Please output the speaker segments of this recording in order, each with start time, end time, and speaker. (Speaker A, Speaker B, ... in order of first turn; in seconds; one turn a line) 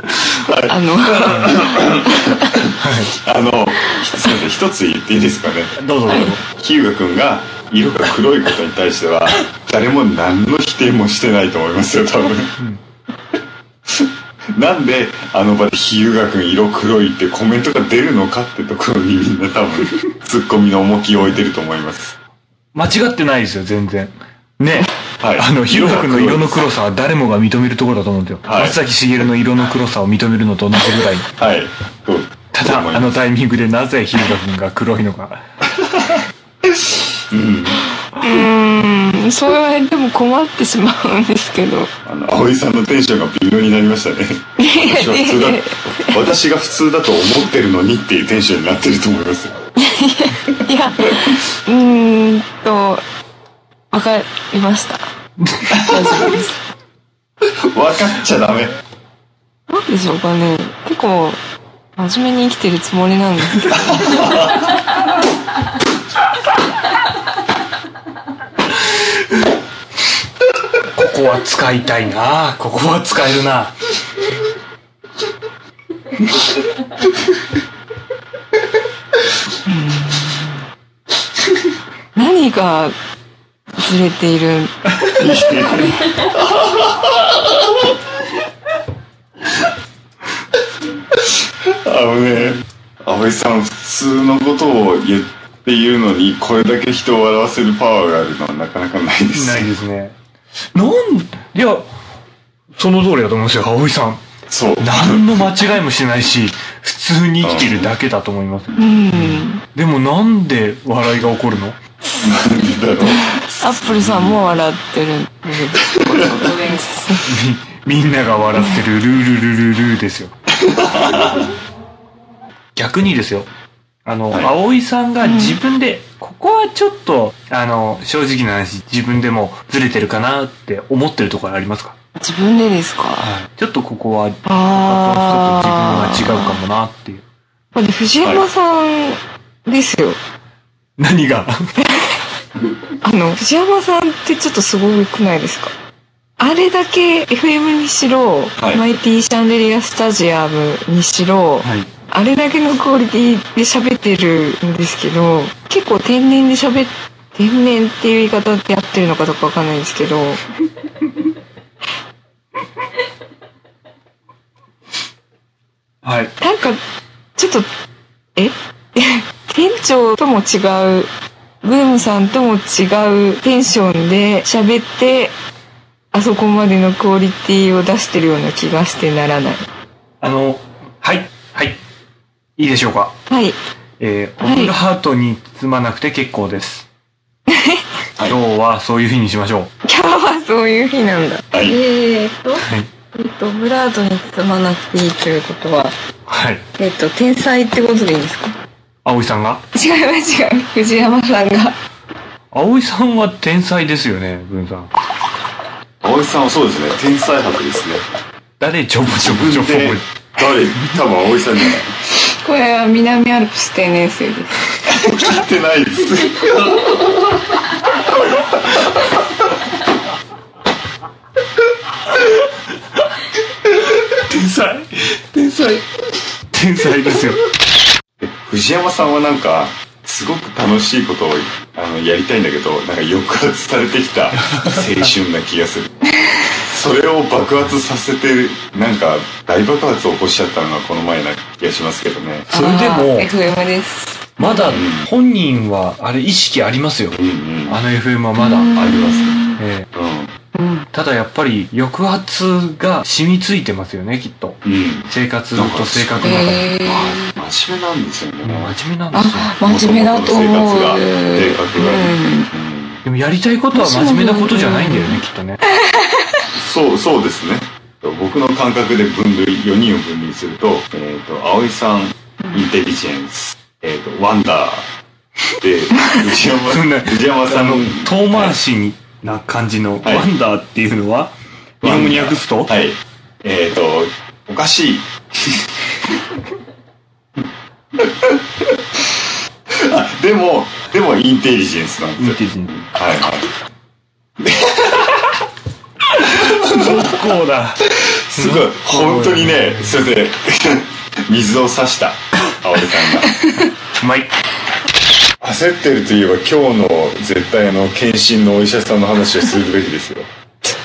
Speaker A: 0.5-5.8
Speaker B: 0.7-2.4
Speaker C: 2.8-3.1
Speaker C: 5.8-6.4
Speaker B: 6.1-6.3
Speaker A: 6.3-12.6
Speaker A: 13.9-22.2
Speaker C: 22.7-31.3
Speaker A: 25.2-26.7
Speaker A: 28.4-28.8
Speaker A: 31.4-33.2
Speaker C: 32.5-35.4
Speaker A: 36.8-37.8
Speaker B: 38.2-41.9
Speaker A: 42.0-49.5
Speaker B: 44.6-46.1
Speaker B: 49.8-53.0
Speaker B: 53.9-55.1
Speaker C: 55.4-55.8
Speaker A: 55.7-56.4
Speaker B: 55.8-56.6
Speaker A: 57.6-58.8
Speaker B: 59.7-61.4
Speaker B: 62.0-64.4
Speaker A: 63.9-64.5
Speaker C: 70.9-73.7
Speaker B: 79.7-80.6
Speaker B: 82.2-83.0
Speaker B: 83.8-84.8
Speaker A: 85.2-87.9
Speaker A: 91.8-99.7
Speaker C: 99.3-100.2
Speaker C: 100.7-101.9
Speaker C: 102.8-104.2
Speaker A: 104.5-105.5
Speaker C: 104.8-111.8
Speaker A: 107.4-107.9
Speaker B: 108.8-109.6
Speaker A: 112.2-114.6
Speaker B: 113.1-117.2
Speaker A: 116.0-116.4
Speaker C: 117.2-120.3
Speaker A: 120.6-121.5
Speaker C: 122.8-123.5
Speaker C: 124.0-131.9
Speaker B: 125.2-125.6
Speaker B: 132.2-133.3
Speaker C: 133.2-137.2
Speaker B: 134.5-136.6
Speaker B: 137.8-140.2
Speaker A: 138.2-138.5
Speaker C: 141.0-141.7
Speaker B: 143.0-145.7
Speaker B: 146.4-160.4
Speaker A: 148.6-148.8
Speaker C: 151.6-151.9
Speaker C: 166.0-166.4
Speaker B: 166.4-166.8
Speaker B: 167.4-167.7
Speaker B: 168.4-171.1
Speaker B: 171.6-175.3
Speaker B: 176.1-179.7
Speaker C: 180.2-181.8
Speaker C: 182.6-183.2
Speaker B: 183.3-183.6
Speaker C: 184.0-186.9
Speaker B: 184.4-184.7
Speaker B: 187.5-187.8
Speaker C: 188.3-189.7
Speaker B: 189.8-196.0
Speaker A: 191.5-191.8
Speaker C: 192.6-192.9
Speaker C: 196.3-196.6
Speaker B: 196.8-198.6
Speaker C: 199.1-199.7
Speaker B: 199.7-201.8
Speaker C: 202.5-204.9
Speaker A: 206.0-208.1
Speaker C: 208.6-210.1
Speaker A: 209.1-212.1
Speaker B: 212.3-214.7
Speaker A: 214.9-217.0
Speaker C: 224.1-225.8
Speaker C: 226.5-227.4
Speaker A: 228.2-235.9
Speaker C: 234.4-234.8
Speaker A: 236.6-242.5
Speaker C: 242.5-243.3
Speaker B: 242.5-244.3
Speaker C: 244.4-248.7
Speaker A: 244.7-245.1
Speaker A: 247.1-247.8
Speaker B: 248.4-249.6
Speaker A: 248.7-250.3
Speaker C: 249.6-249.9
Speaker B: 250.6-250.8
Speaker C: 250.9-256.7
Speaker A: 254.6-258.8
Speaker B: 256.2-257.3
Speaker C: 258.4-259.6
Speaker B: 259.1-262.5
Speaker A: 259.6-263.0
Speaker C: 263.1-265.6
Speaker B: 263.7-265.2
Speaker B: 265.8-266.2
Speaker A: 266.5-274.9
Speaker A: 275.6-278.6
Speaker C: 276.7-282.7
Speaker A: 280.0-280.3
Speaker A: 281.8-285.7
Speaker A: 288.0-288.7
Speaker A: 289.8-293.5
Speaker C: 292.2-292.8
Speaker A: 294.4-295.2
Speaker C: 296.2-300.1
Speaker A: 296.7-297.2
Speaker A: 297.9-303.4
Speaker C: 304.0-304.3
Speaker A: 305.4-310.3